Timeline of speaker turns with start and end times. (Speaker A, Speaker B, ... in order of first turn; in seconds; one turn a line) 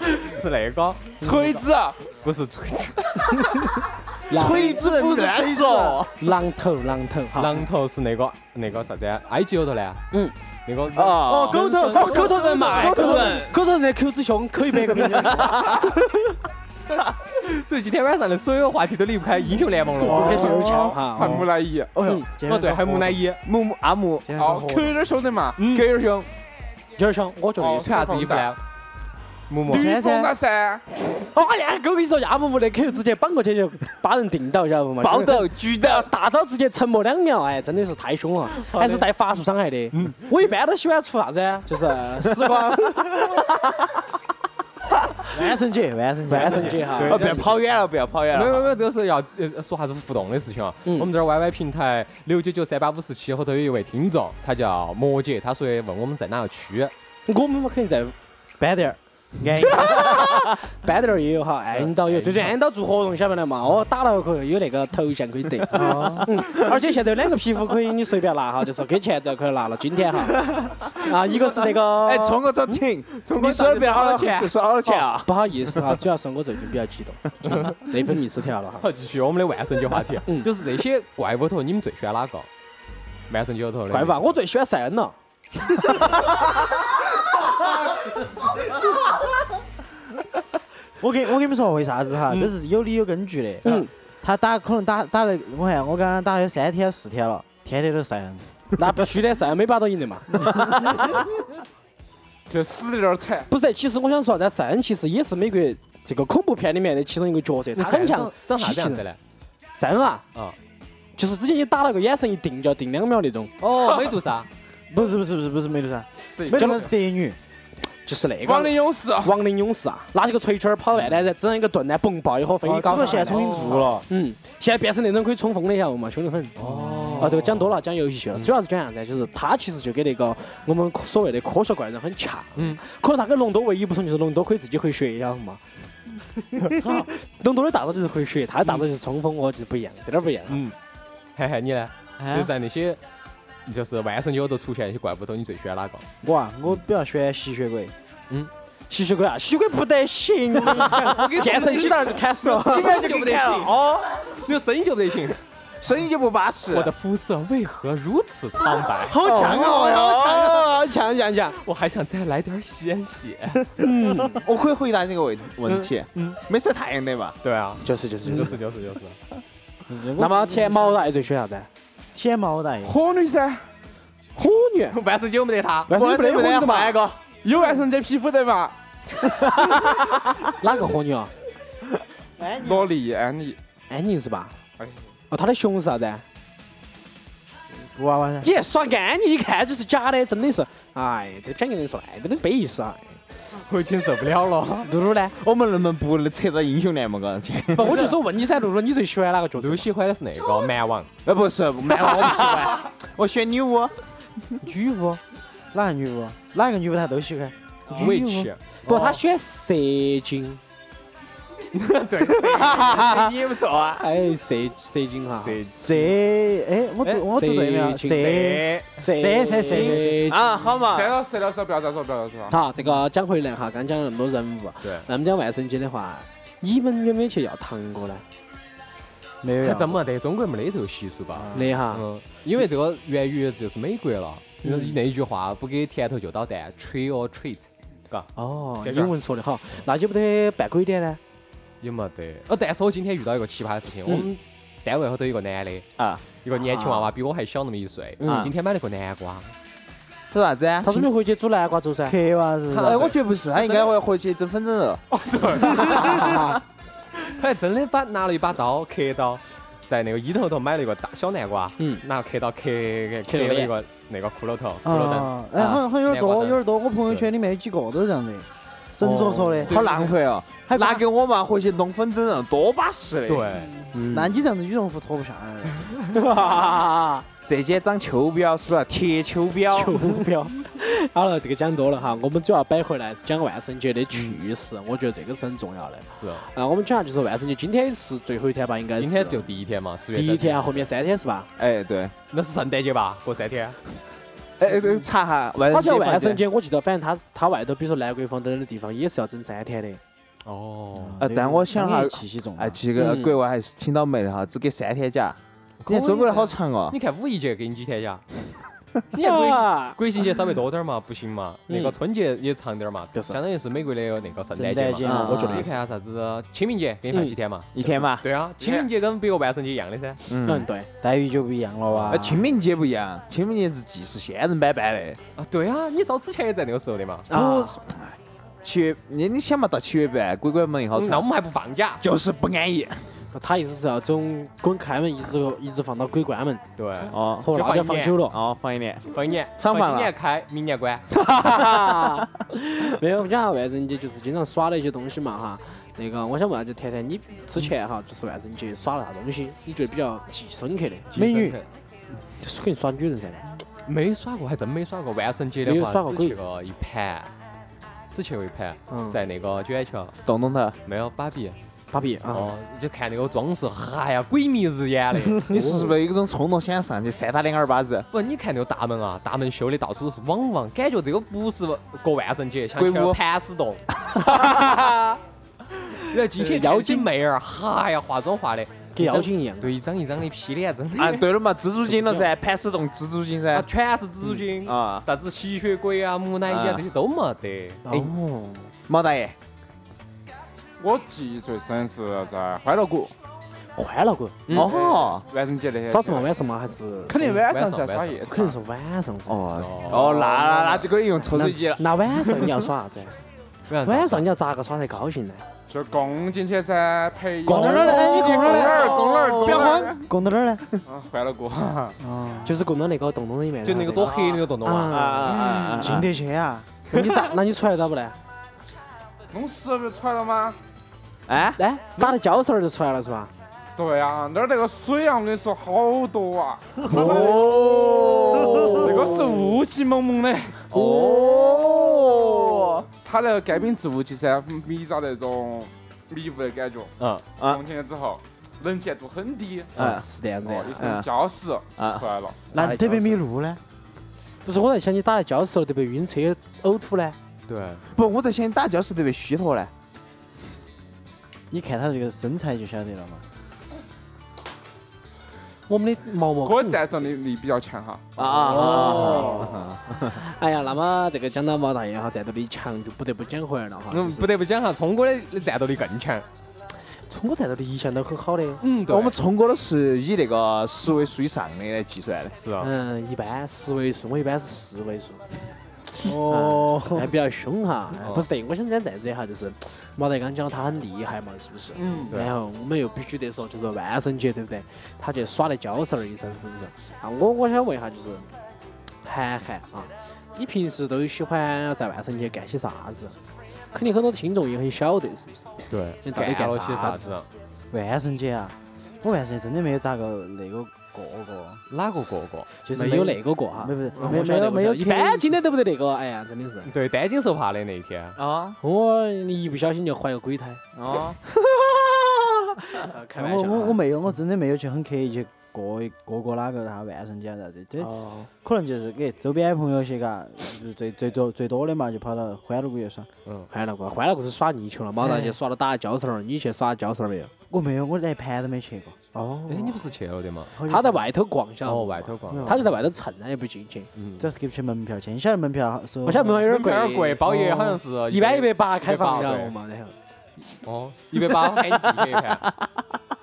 Speaker A: 0.1-1.2
Speaker B: 1.2-2.1
Speaker C: 1.2-1.6
Speaker A: 2.1-3.5
Speaker C: 3.3-4.8
Speaker D: 4.3-6.2
Speaker E: 4.3-6.0
Speaker C: 6.2-7.7
Speaker A: 7.3-10.0
Speaker A: 10.7-13.2
Speaker D: 10.9-11.6
Speaker E: 11.2-13.4
Speaker C: 11.9-16.3
Speaker D: 12.7-13.6
Speaker D: 15.0-15.8
Speaker A: 17.3-20.5
Speaker E: 20.0-20.9
Speaker C: 20.0-21.4
Speaker B: 20.4-21.9
Speaker A: 21.2-21.5
Speaker E: 21.9-23.2
Speaker A: 22.4-23.4
Speaker D: 23.4-24.4
Speaker E: 24.3-24.9
Speaker B: 24.4-25.7
Speaker D: 25.6-26.3
Speaker C: 27.0-28.1
Speaker B: 27.6-28.5
Speaker A: 27.8-28.6
Speaker A: 29.5-29.9
Speaker B: 29.7-30.8
Speaker E: 29.7-30.3
Speaker C: 31.0-43.2
Speaker D: 35.0-36.1
Speaker A: 38.5-39.0
Speaker D: 42.5-42.9
Speaker E: 45.3-47.1
Speaker C: 46.3-47.4
Speaker D: 46.9-48.7
Speaker A: 47.0-47.6
Speaker A: 48.3-56.9
Speaker C: 50.8-51.1
Speaker C: 57.2-58.1
Speaker E: 58.6-60.3
Speaker C: 59.7-72.8
Speaker A: 61.7-62.5
Speaker E: 65.7-66.3
Speaker D: 70.5-70.7
Speaker D: 71.9-75.9
Speaker A: 73.2-75.0
Speaker C: 75.2-78.9
Speaker A: 77.4-77.8
Speaker A: 78.8-82.5
Speaker A: 83.3-84.3
Speaker C: 83.9-85.1
Speaker E: 91.0-98.6
Speaker C: 93.6-93.9
Speaker C: 98.8-100.8
Speaker B: 102.5-103.5
Speaker C: 103.5-109.0
Speaker A: 107.8-109.2
Speaker C: 109.7-110.2
Speaker C: 111.2-113.5
Speaker A: 113.6-114.5
Speaker E: 114.9-117.4
Speaker C: 116.5-116.8
Speaker C: 117.9-135.6
Speaker B: 118.4-119.4
Speaker E: 122.6-124.0
Speaker A: 123.2-124.0
Speaker A: 126.6-127.6
Speaker E: 126.7-127.3
Speaker C: 136.5-140.6
Speaker E: 136.7-137.1
Speaker A: 140.5-140.8
Speaker A: 141.3-143.0
Speaker E: 142.2-142.5
Speaker A: 143.7-146.1
Speaker E: 146.2-147.9
Speaker C: 148.9-153.1
Speaker A: 150.7-155.4
Speaker D: 152.4-154.1
Speaker D: 155.8-156.9
Speaker A: 156.7-159.2
Speaker E: 159.0-160.4
Speaker D: 159.2-160.7
Speaker C: 159.2-161.6
Speaker A: 161.6-163.7
Speaker C: 163.7-164.4
Speaker D: 164.3-167.4
Speaker A: 165.6-166.4
Speaker A: 167.4-169.2
Speaker C: 167.8-168.6
Speaker E: 169.9-171.0
Speaker C: 170.2-171.7
Speaker E: 172.1-172.9
Speaker B: 172.8-173.7
Speaker C: 174.3-175.0
Speaker A: 174.9-175.9
Speaker C: 175.9-177.0
Speaker D: 175.9-177.2
Speaker B: 177.4-178.8
Speaker D: 179.4-180.3
Speaker C: 180.6-181.3
Speaker E: 182.4-182.9
Speaker B: 182.6-183.6
Speaker C: 183.9-184.5
Speaker B: 184.8-185.1
Speaker C: 185.3-186.2
Speaker E: 187.7-188.5
Speaker C: 188.4-193.2
Speaker A: 193.5-194.9
Speaker C: 194.8-195.3
Speaker D: 195.3-198.2
Speaker C: 197.7-199.9
Speaker A: 199.6-201.1
Speaker D: 201.2-204.0
Speaker E: 204.6-205.2
Speaker E: 205.7-208.5
Speaker A: 207.9-209.2
Speaker C: 208.8-210.6
Speaker A: 211.7-213.2
Speaker D: 212.2-214.1
Speaker C: 212.8-213.2
Speaker C: 214.0-215.7
Speaker A: 215.4-216.1
Speaker E: 215.7-220.1
Speaker C: 217.3-220.7
Speaker A: 218.0-218.9
Speaker D: 219.7-221.2
Speaker B: 220.8-222.6
Speaker C: 222.5-228.2
Speaker E: 229.4-230.0
Speaker A: 229.6-238.3
Speaker C: 231.5-232.0
Speaker C: 234.6-235.0
Speaker C: 238.3-241.2
Speaker A: 238.8-239.1
Speaker A: 241.8-249.5
Speaker D: 246.0-246.2
Speaker C: 246.5-247.1
Speaker C: 248.2-248.5
Speaker D: 248.2-248.5
Speaker D: 250.3-251.1
Speaker C: 250.8-252.2
Speaker E: 252.0-253.1
Speaker A: 252.7-253.9
Speaker D: 252.8-255.0
Speaker B: 255.2-256.2
Speaker A: 255.3-256.4
Speaker C: 255.6-256.6
Speaker A: 257.2-265.4
Speaker C: 263.3-263.7
Speaker E: 264.8-269.8
Speaker A: 266.0-267.3
Speaker C: 269.0-269.7
Speaker D: 269.6-273.7
Speaker A: 269.7-270.1
Speaker E: 270.7-271.0
Speaker A: 273.3-273.8
Speaker C: 273.9-274.3
Speaker E: 274.1-275.9
Speaker C: 276.1-277.2
Speaker D: 277.4-280.2
Speaker C: 279.7-289.4
Speaker A: 286.1-286.5
Speaker A: 289.0-290.9
Speaker C: 290.1-291.5
Speaker D: 291.6-292.1
Speaker A: 292.3-293.8
Speaker D: 294.6-296.4
Speaker C: 295.7-300.0
Speaker A: 300.4-301.2
Speaker E: 300.9-302.8
Speaker D: 301.2-307.0
Speaker C: 302.9-303.4
Speaker A: 305.8-308.2
Speaker A: 309.1-320.2
Speaker C: 309.2-310.0
Speaker C: 311.7-311.9
Speaker C: 313.1-313.4
Speaker E: 314.5-315.6
Speaker C: 315.0-315.7
Speaker D: 315.0-315.7
Speaker C: 317.1-317.4
Speaker D: 317.7-318.3
Speaker B: 318.6-318.9
Speaker D: 320.3-320.7
Speaker C: 320.4-320.9
Speaker E: 321.0-322.5
Speaker A: 321.9-322.2
Speaker D: 322.1-325.2
Speaker A: 325.4-327.3
Speaker C: 327.3-327.8
Speaker D: 327.3-331.3
Speaker A: 330.9-332.0
Speaker D: 332.0-333.0
Speaker C: 333.3-336.6
Speaker A: 336.8-338.2
Speaker D: 337.1-337.5
Speaker C: 337.4-338.4
Speaker D: 338.3-340.1
Speaker A: 339.1-341.2
Speaker D: 341.2-341.8
Speaker C: 341.4-351.1
Speaker A: 351.1-351.7
Speaker E: 351.1-351.6
Speaker C: 352.2-353.5
Speaker A: 353.9-357.3
Speaker C: 355.6-356.4
Speaker A: 358.1-360.2
Speaker C: 358.9-359.2
Speaker D: 360.2-360.8
Speaker A: 360.8-361.6
Speaker C: 361.9-362.5
Speaker A: 362.3-365.6
Speaker D: 365.5-368.1
Speaker C: 365.5-365.9
Speaker A: 368.1-375.2
Speaker D: 372.8-373.2
Speaker A: 375.9-381.3
Speaker C: 376.3-377.1
Speaker C: 378.9-379.7
Speaker D: 381.0-383.7
Speaker C: 381.9-382.3
Speaker A: 383.5-387.8
Speaker D: 384.2-385.1
Speaker D: 386.4-386.8
Speaker C: 387.8-388.7
Speaker D: 387.9-388.1
Speaker D: 388.9-389.4
Speaker B: 390.8-393.1
Speaker C: 393.7-394.6
Speaker A: 394.5-394.7
Speaker B: 394.5-396.3
Speaker D: 394.5-395.2
Speaker C: 395.9-397.4
Speaker B: 397.1-398.6
Speaker A: 397.4-398.2
Speaker C: 398.3-403.2
Speaker D: 399.3-402.6
Speaker A: 399.5-400.3
Speaker A: 403.7-404.2
Speaker C: 403.8-405.4
Speaker B: 405.7-410.0
Speaker E: 407.4-410.6
Speaker C: 407.5-408.0
Speaker D: 408.1-409.9
Speaker B: 410.9-412.0
Speaker E: 412.0-412.6
Speaker C: 412.4-416.0
Speaker A: 413.6-415.4
Speaker D: 414.9-416.1
Speaker B: 415.4-415.8
Speaker E: 415.7-416.7
Speaker C: 416.9-418.2
Speaker B: 419.3-420.6
Speaker D: 421.3-422.1
Speaker C: 421.6-423.3
Speaker B: 423.8-427.6
Speaker D: 426.8-429.4
Speaker E: 426.9-427.3
Speaker E: 428.3-428.8
Speaker B: 428.7-430.7
Speaker D: 430.7-432.9
Speaker E: 430.8-431.6
Speaker B: 433.0-439.8
Speaker D: 437.4-437.6
Speaker D: 439.8-440.0
Speaker C: 439.8-440.9
Speaker B: 440.4-442.4
Speaker D: 440.8-441.1
Speaker D: 441.8-442.0
Speaker E: 442.5-443.6
Speaker C: 442.5-443.2
Speaker C: 444.4-447.2
Speaker A: 447.5-447.8
Speaker D: 447.8-449.7
Speaker E: 451.5-453.2
Speaker C: 455.7-457.1
Speaker B: 456.4-458.2
Speaker D: 458.1-460.2
Speaker C: 458.2-464.3
Speaker A: 458.7-459.3
Speaker A: 463.9-466.2
Speaker C: 466.8-469.0
Speaker A: 468.6-469.2
Speaker D: 468.9-472.4
Speaker A: 472.3-472.7
Speaker C: 472.6-488.3
Speaker E: 476.0-477.1
Speaker A: 478.0-478.3
Speaker A: 481.8-482.4
Speaker C: 489.0-493.2
Speaker C: 493.7-495.5
Speaker A: 495.7-497.3
Speaker C: 496.0-497.2
Speaker E: 497.7-501.6
Speaker A: 501.7-502.5
Speaker E: 502.6-505.3
Speaker C: 502.7-506.7
Speaker A: 506.6-508.2
Speaker D: 508.1-508.6
Speaker C: 508.6-510.6
Speaker D: 510.7-511.2
Speaker C: 511.3-513.8
Speaker E: 513.1-517.9
Speaker C: 517.8-518.3
Speaker E: 518.4-523.1
Speaker A: 523.2-523.5
Speaker C: 523.5-527.3
Speaker A: 525.0-525.4
Speaker E: 527.5-529.0
Speaker C: 529.1-529.8
Speaker A: 529.5-530.6
Speaker E: 530.5-531.0
Speaker C: 530.6-533.9
Speaker A: 531.6-532.7
Speaker E: 532.3-532.7
Speaker A: 534.0-534.3
Speaker E: 534.2-536.5
Speaker C: 536.0-540.0
Speaker A: 536.4-539.5
Speaker A: 540.6-542.5